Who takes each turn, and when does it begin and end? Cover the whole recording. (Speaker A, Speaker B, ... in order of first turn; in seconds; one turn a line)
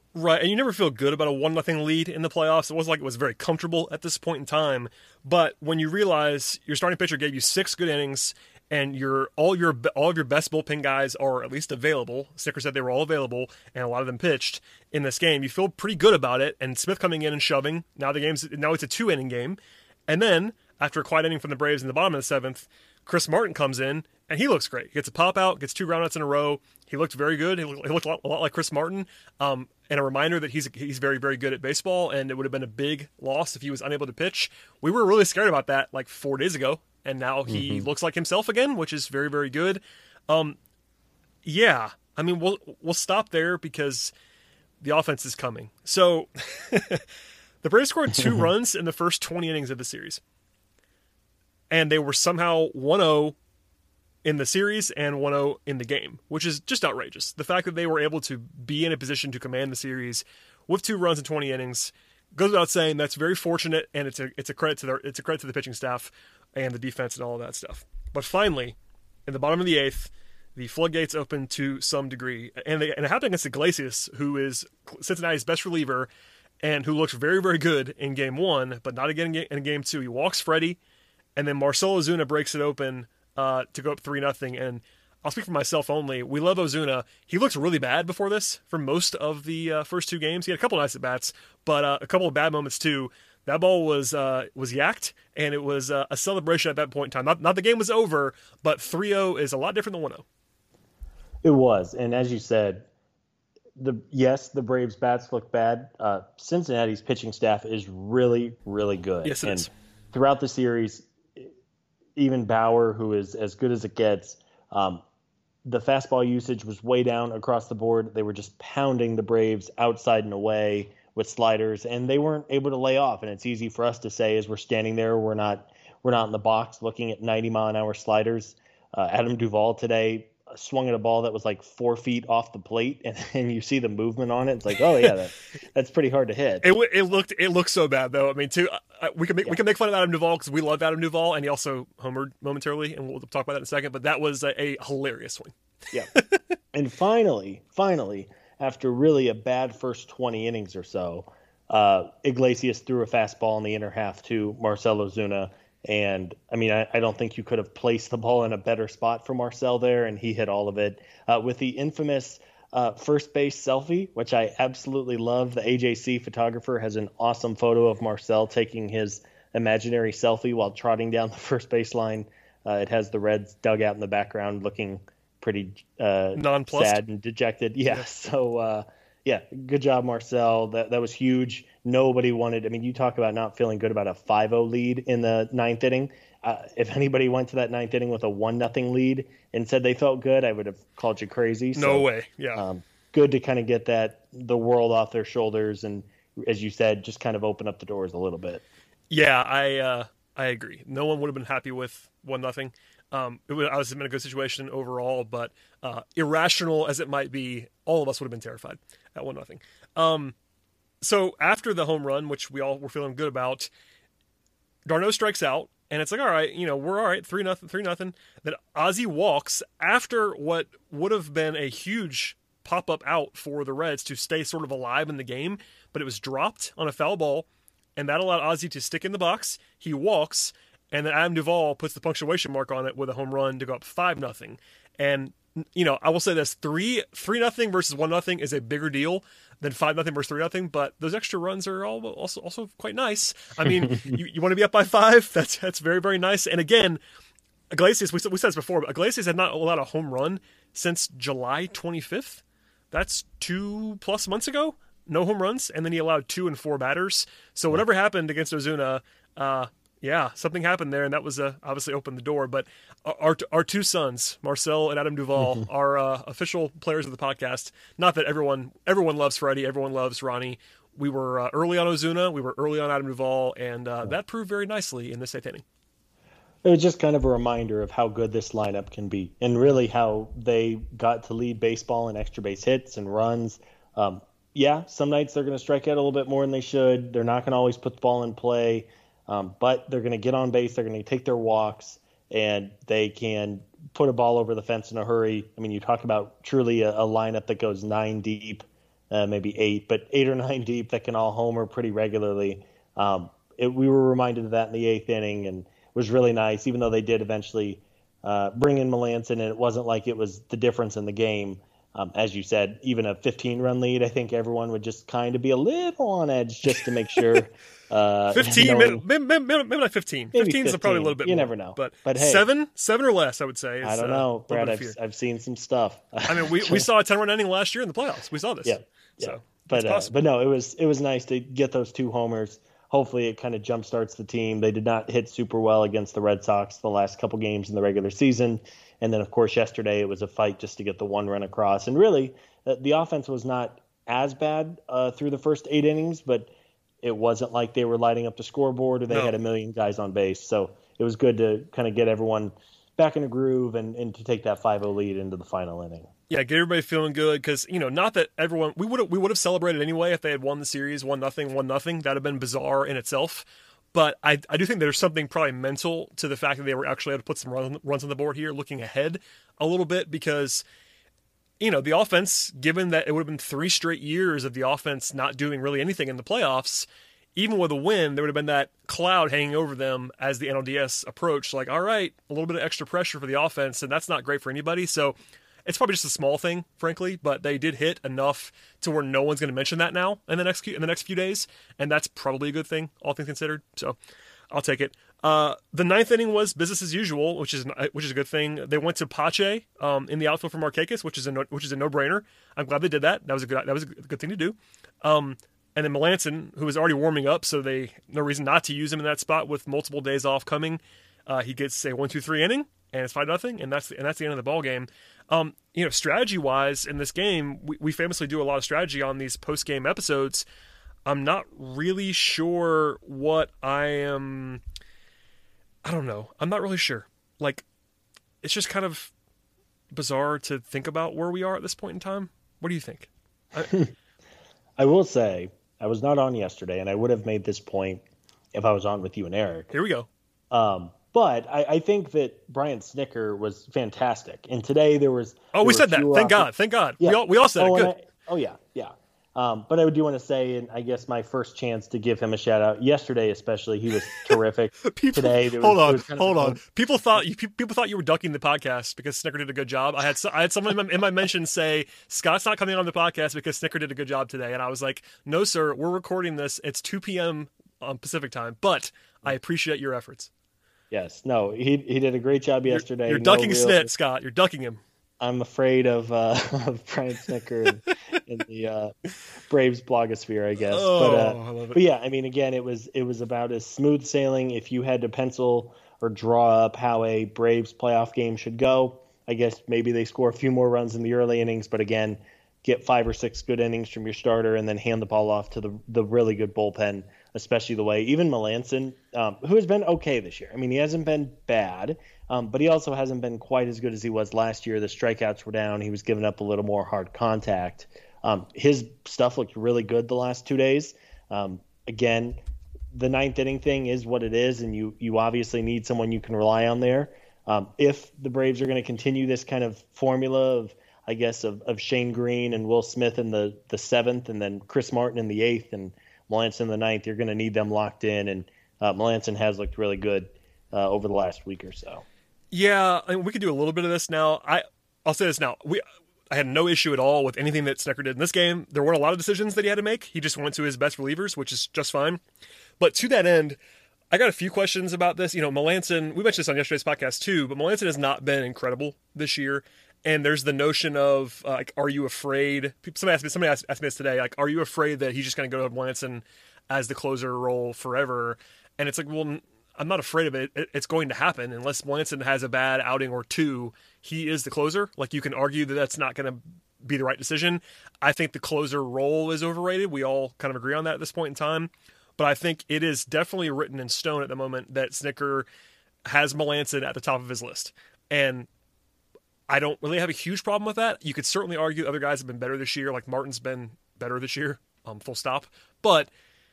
Speaker A: 0.1-40.6
Speaker B: 37.5-37.8
Speaker A: 41.5-44.1
Speaker A: 44.8-47.0
Speaker A: 47.6-50.2
Speaker A: 51.7-53.4
Speaker A: 54.2-68.8
Speaker A: 69.3-76.1
Speaker A: 76.6-80.8
Speaker A: 81.4-100.2
Speaker B: 101.4-102.9
Speaker B: 103.8-111.5
Speaker A: 109.2-109.7
Speaker B: 112.2-115.0
Speaker B: 115.7-136.7
Speaker A: 136.6-145.5
Speaker A: 146.1-146.4
Speaker B: 146.7-198.6
Speaker A: 176.3-177.0
Speaker A: 191.8-192.6
Speaker A: 199.1-210.3
Speaker A: 211.0-213.7
Speaker A: 214.9-247.0
Speaker A: 247.7-275.6
Speaker B: 265.4-265.6
Speaker B: 276.6-319.0
Speaker A: 318.3-325.0
Speaker B: 320.4-322.4
Speaker B: 323.8-326.8
Speaker A: 326.3-330.1
Speaker B: 328.6-346.5
Speaker B: 347.0-356.1
Speaker A: 356.3-370.6
Speaker A: 371.6-394.0
Speaker A: 394.5-420.4
Speaker A: 421.1-424.6
Speaker A: 425.8-427.6
Speaker A: 428.4-429.1
Speaker A: 429.9-433.7
Speaker B: 433.7-433.9
Speaker B: 434.8-438.0
Speaker B: 438.5-439.7
Speaker A: 439.7-440.1
Speaker B: 440.5-446.5
Speaker A: 445.5-447.9
Speaker B: 447.0-456.6
Speaker A: 454.8-470.3
Speaker B: 470.9-473.9
Speaker A: 472.7-474.8
Speaker B: 475.2-478.9
Speaker B: 479.5-512.4
Speaker A: 480.6-481.8
Speaker B: 512.9-532.0
Speaker A: 532.5-542.2
Speaker A: 542.8-543.6
Speaker A: 544.1-575.5
Speaker A: 576.1-578.5
Speaker A: 579.5-586.1